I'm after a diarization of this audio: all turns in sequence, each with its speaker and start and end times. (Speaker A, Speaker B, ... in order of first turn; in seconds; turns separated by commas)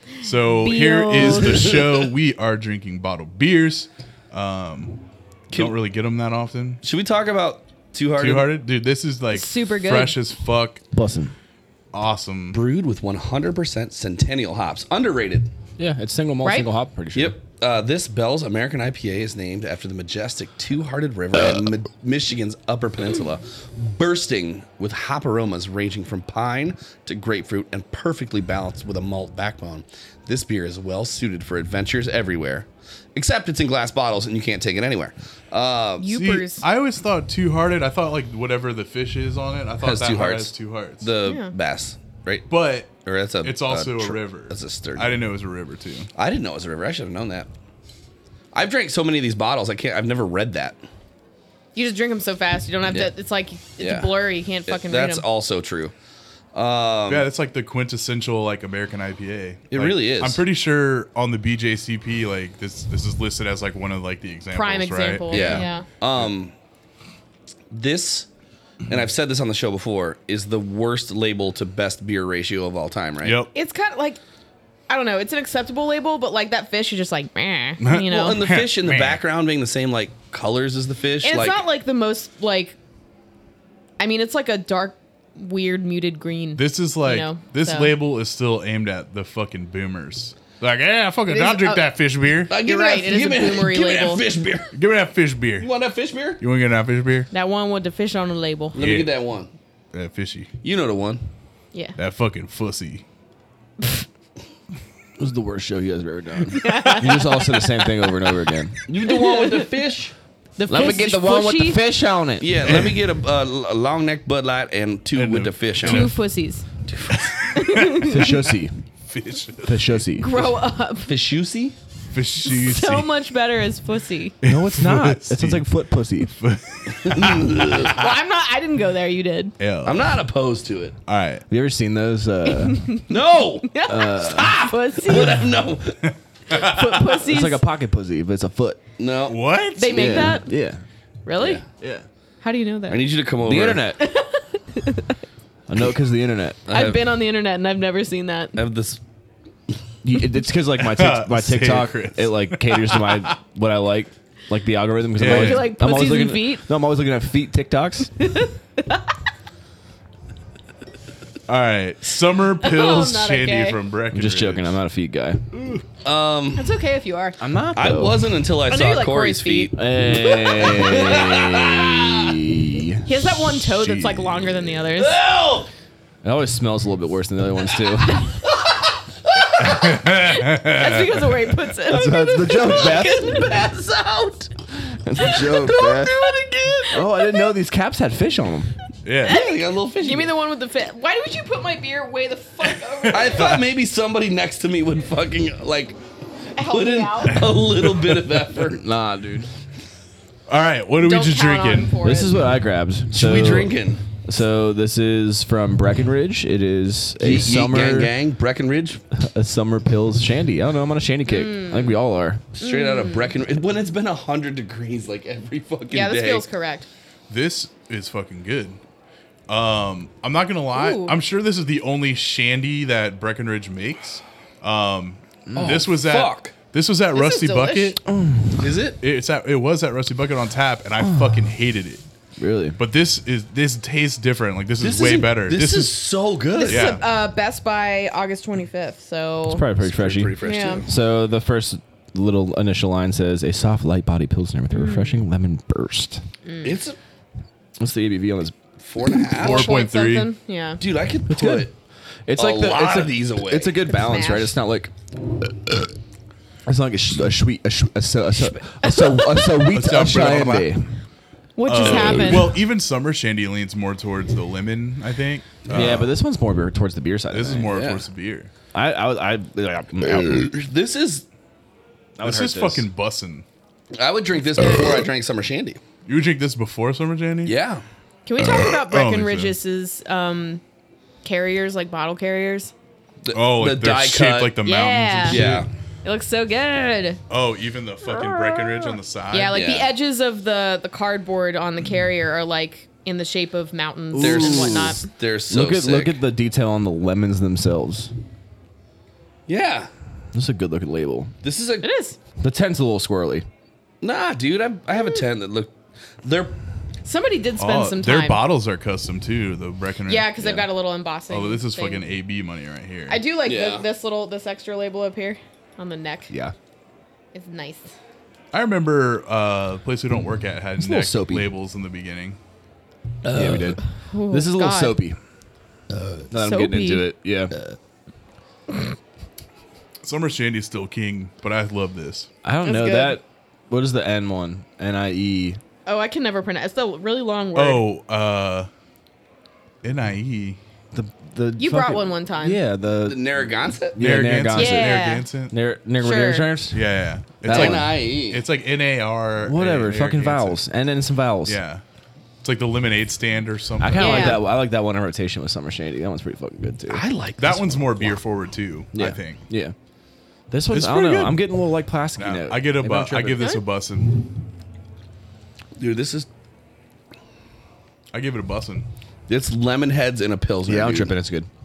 Speaker A: 0.2-6.8, Speaker B: 0.5-1.8, Speaker C: 1.1-2.1, Speaker C: 5.5-5.8, Speaker C: 6.8-8.5, Speaker A: 8.2-10.8, Speaker B: 9.3-10.2, Speaker D: 10.9-11.3, Speaker A: 11.9-12.6, Speaker C: 12.5-15.5, Speaker D: 15.8-17.4, Speaker B: 16.4-16.7, Speaker C: 17.1-36.2, Speaker B: 36.0-36.6, Speaker A: 36.1-41.1, Speaker C: 39.8-42.5, Speaker B: 41.2-41.5, Speaker A: 42.5-42.9, Speaker C: 43.0-45.2, Speaker A: 43.4-46.1, Speaker C: 46.1-47.5, Speaker C: 48.5-50.8, Speaker B: 51.7-55.2, Speaker C: 53.8-55.9, Speaker C: 56.5-57.3, Speaker A: 57.1-66.3, Speaker C: 59.7-60.4, Speaker B: 64.5-65.8, Speaker C: 65.3-66.5, Speaker C: 67.7-68.3, Speaker C: 68.9-73.4, Speaker A: 73.2-73.5, Speaker B: 73.5-74.2, Speaker B: 74.9-78.4, Speaker A: 77.8-79.2, Speaker C: 78.0-81.6, Speaker B: 81.2-82.8, Speaker B: 84.0-87.9, Speaker A: 86.5-92.5, Speaker B: 91.3-91.8, Speaker C: 92.5-94.7, Speaker B: 92.5-94.2, Speaker A: 94.7-95.7, Speaker C: 95.6-96.4, Speaker A: 96.4-97.3, Speaker B: 97.3-98.8, Speaker C: 98.7-99.5, Speaker A: 98.8-99.1, Speaker A: 99.9-100.5, Speaker C: 100.6-101.2, Speaker A: 102.0-103.0, Speaker D: 105.2-108.8, Speaker B: 106.5-108.1, Speaker C: 108.9-110.1, Speaker B: 109.0-109.7, Speaker B: 110.6-111.8, Speaker D: 110.7-112.9, Speaker C: 112.4-116.1, Speaker A: 112.6-113.0, Speaker A: 115.1-116.2, Speaker B: 115.8-116.7, Speaker C: 116.9-117.4, Speaker A: 117.1-118.5, Speaker B: 117.5-118.5, Speaker D: 118.0-118.8, Speaker A: 119.0-120.0, Speaker D: 119.6-120.3, Speaker B: 120.2-121.1, Speaker C: 121.0-121.8, Speaker A: 122.1-123.1, Speaker B: 122.4-124.4, Speaker A: 124.4-125.7, Speaker D: 124.4-126.3, Speaker A: 126.2-128.1, Speaker C: 127.0-127.9, Speaker B: 127.8-129.5, Speaker A: 129.6-130.1, Speaker C: 129.8-130.9, Speaker A: 131.1-131.4, Speaker D: 131.5-132.8, Speaker B: 132.4-133.1, Speaker C: 133.1-136.1, Speaker B: 133.6-135.6, Speaker D: 133.9-134.6, Speaker A: 136.5-137.2, Speaker B: 136.5-137.6, Speaker D: 137.3-138.8, Speaker C: 139.0-140.4, Speaker A: 139.3-139.9, Speaker B: 139.6-140.5, Speaker D: 139.9-140.8, Speaker B: 141.2-141.6, Speaker C: 141.4-141.6, Speaker D: 141.8-142.1, Speaker B: 142.4-143.1, Speaker C: 142.9-143.9, Speaker D: 143.4-144.0, Speaker B: 144.0-145.2, Speaker D: 145.7-146.7, Speaker C: 146.7-147.0, Speaker B: 146.7-148.6, Speaker C: 148.6-149.0, Speaker D: 150.0-158.1, Speaker A: 150.8-153.3, Speaker A: 155.2-155.7, Speaker B: 155.2-156.6, Speaker B: 158.2-159.1, Speaker A: 161.5-164.8, Speaker B: 162.6-163.8, Speaker D: 164.1-165.8, Speaker C: 166.0-166.7, Speaker B: 166.6-167.4, Speaker D: 167.4-168.2, Speaker C: 167.8-169.7, Speaker B: 168.7-171.2, Speaker D: 169.7-173.0, Speaker C: 170.5-172.2, Speaker B: 173.1-175.2, Speaker A: 173.3-174.7, Speaker C: 174.9-175.7, Speaker D: 176.2-178.3, Speaker C: 178.4-179.6, Speaker A: 179.6-181.7, Speaker B: 179.8-183.7, Speaker D: 181.9-183.4, Speaker C: 182.5-184.5, Speaker D: 185.0-186.2, Speaker B: 185.2-187.4, Speaker C: 185.7-186.8, Speaker D: 186.9-188.7, Speaker A: 189.0-189.4, Speaker B: 189.2-193.6, Speaker C: 189.2-190.3, Speaker A: 192.6-193.7, Speaker C: 193.1-196.0, Speaker C: 196.6-198.8, Speaker B: 196.6-197.5, Speaker A: 197.3-198.3, Speaker D: 198.7-199.5, Speaker A: 200.5-202.0, Speaker B: 201.0-202.4, Speaker D: 202.0-208.1, Speaker C: 203.1-204.0, Speaker C: 207.2-209.0, Speaker D: 209.1-212.4, Speaker B: 211.3-212.0, Speaker C: 212.6-216.5, Speaker B: 212.6-213.3, Speaker B: 215.9-216.9, Speaker A: 217.3-218.8, Speaker A: 219.5-228.0, Speaker B: 220.7-221.2, Speaker D: 225.5-225.8, Speaker C: 225.6-226.5, Speaker B: 227.1-228.0, Speaker D: 228.0-228.7, Speaker C: 228.6-229.0, Speaker A: 229.0-232.0, Speaker D: 231.0-231.4, Speaker D: 232.4-232.8, Speaker A: 232.8-235.9, Speaker C: 234.8-237.0, Speaker B: 236.5-239.7, Speaker A: 236.6-237.0, Speaker D: 239.5-240.3, Speaker C: 239.8-240.9, Speaker B: 240.4-240.9, Speaker D: 240.9-246.2, Speaker B: 244.7-245.2, Speaker B: 246.4-246.7, Speaker C: 246.6-247.0, Speaker D: 247.8-249.2, Speaker C: 248.8-249.7, Speaker A: 249.3-250.3, Speaker B: 249.4-250.8, Speaker C: 250.8-251.7, Speaker D: 251.3-251.7, Speaker D: 252.3-255.9, Speaker C: 252.3-253.8, Speaker B: 253.8-254.5, Speaker D: 256.6-261.0, Speaker B: 258.8-259.7, Speaker A: 259.7-260.7, Speaker B: 261.6-262.6, Speaker A: 261.6-266.1, Speaker C: 261.7-262.2, Speaker D: 265.7-267.8, Speaker A: 267.3-268.5, Speaker C: 267.7-268.0, Speaker D: 268.7-270.5, Speaker C: 270.2-271.2, Speaker D: 272.2-272.9, Speaker A: 272.2-273.4, Speaker C: 273.9-275.8, Speaker A: 276.1-277.5, Speaker C: 277.4-277.8, Speaker B: 278.2-280.6, Speaker A: 278.6-279.6, Speaker B: 281.2-282.7, Speaker C: 283.2-284.6, Speaker A: 283.3-285.6, Speaker B: 284.6-285.5, Speaker C: 285.3-285.7, Speaker B: 286.0-287.2, Speaker A: 287.3-289.6, Speaker B: 288.2-295.0, Speaker C: 289.5-289.9, Speaker D: 294.1-298.1, Speaker C: 294.2-296.2, Speaker C: 299.5-299.9, Speaker D: 300.3-301.3, Speaker C: 301.4-301.9, Speaker B: 301.8-302.2, Speaker D: 302.4-303.4, Speaker C: 304.0-306.5, Speaker B: 307.0-308.4, Speaker A: 307.6-310.6, Speaker B: 310.1-312.0, Speaker A: 311.3-313.2, Speaker B: 313.1-316.3, Speaker C: 313.4-313.9, Speaker B: 317.3-317.9, Speaker A: 318.5-322.4, Speaker D: 320.8-321.5, Speaker C: 323.2-323.8, Speaker D: 323.3-325.2, Speaker B: 323.9-325.0, Speaker C: 325.9-326.2, Speaker D: 326.3-327.5, Speaker B: 326.3-327.1, Speaker A: 330.0-332.3, Speaker D: 332.4-335.6, Speaker B: 332.6-333.2, Speaker B: 335.9-337.8, Speaker A: 337.5-338.7, Speaker A: 339.8-340.6, Speaker D: 340.9-345.0, Speaker B: 341.6-342.6, Speaker C: 343.1-344.0, Speaker A: 344.0-345.5, Speaker B: 344.5-345.2, Speaker D: 345.5-346.8, Speaker B: 346.0-346.5, Speaker A: 346.7-350.6, Speaker C: 347.4-348.4, Speaker D: 347.4-347.8, Speaker D: 349.4-351.6, Speaker A: 351.4-351.8, Speaker A: 352.4-354.4, Speaker D: 353.8-357.0, Speaker B: 353.9-354.4, Speaker C: 356.9-358.2, Speaker A: 357.4-359.4, Speaker D: 358.9-359.7, Speaker D: 360.5-363.5, Speaker A: 360.7-361.5, Speaker A: 362.2-364.3, Speaker B: 363.4-363.6, Speaker C: 365.8-366.3, Speaker A: 368.1-368.9, Speaker C: 369.3-371.1, Speaker D: 370.6-371.5